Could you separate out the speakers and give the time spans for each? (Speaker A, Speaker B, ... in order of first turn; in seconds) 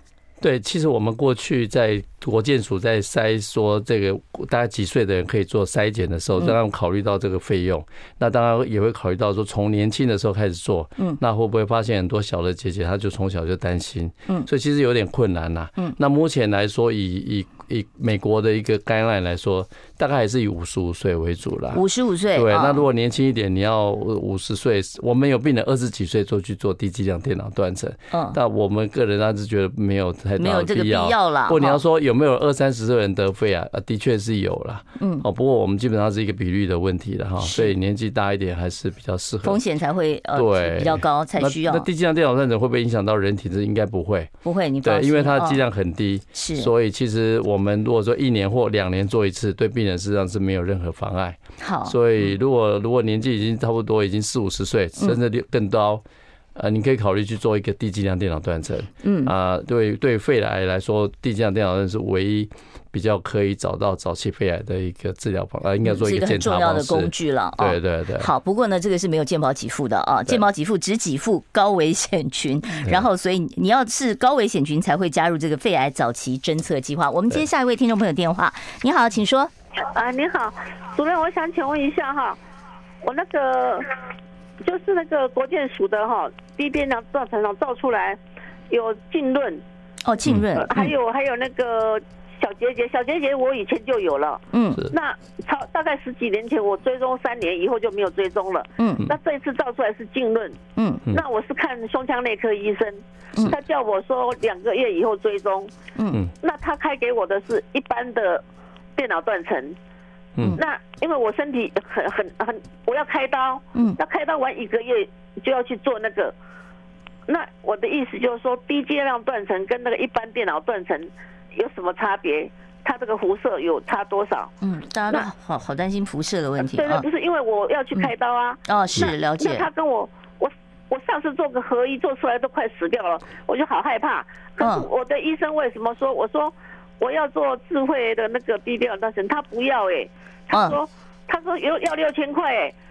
Speaker A: 0.4-39.6, 40.4-44.3, 44.8-56.0, 56.5-68.3
Speaker B: 21.7-22.8, 28.1-28.4, 30.4-31.8, 35.0-35.2, 37.4-37.7, 39.4-41.9, 44.4-45.6, 46.3-46.7, 51.6-52.0, 59.0-59.3, 65.8-79.5, 90.0-90.9, 94.5-94.8, 98.8-99.1, 100.8-101.0, 124.6-127.1, 128.7-129.7, 134.6-134.9, 140.5-140.8
Speaker C: 79.9-82.4, 83.0-83.9, 84.6-88.2, 88.7-89.6, 90.6-105.7, 106.4-108.4, 109.0-109.8, 110.6-116.3, 117.3-124.5, 126.6-142.8